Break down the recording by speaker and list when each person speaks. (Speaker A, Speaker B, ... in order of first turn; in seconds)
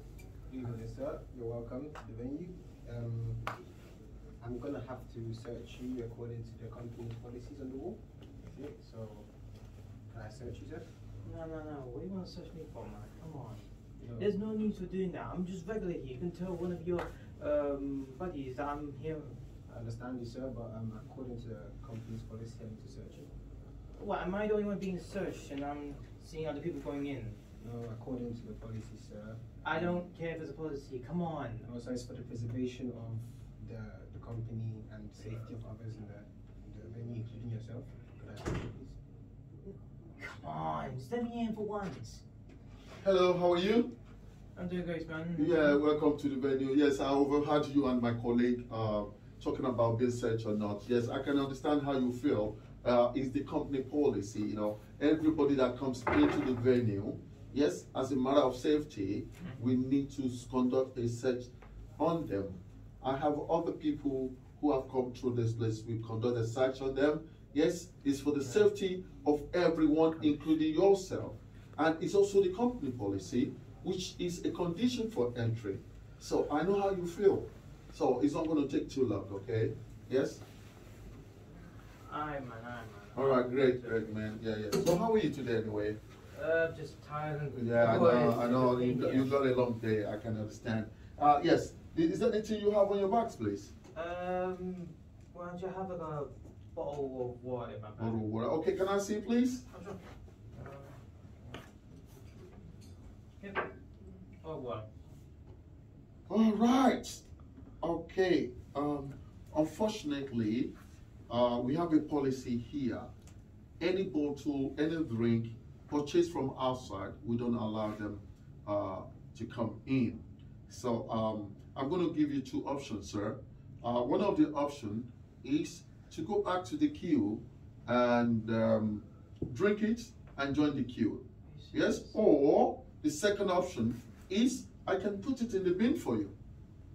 Speaker A: 0.5-3.5, 4.4-9.3, 10.1-10.9, 14.0-14.3, 19.7-23.3, 27.6-29.9, 31.6-39.0
Speaker B: 11.2-19.4, 23.9-27.4, 29.6-31.7, 40.2-42.2, 44.5-45.8, 81.9-84.1, 86.3-89.3, 93.9-98.2, 99.7-100.0, 100.5-101.6, 103.4-103.7, 104.4-104.9, 131.4-132.2
Speaker C: 43.0-43.9, 45.4-80.4, 83.1-86.0, 87.5-93.7, 98.0-99.6, 106.3-107.2, 107.8-110.7, 111.3-113.1, 113.8-136.3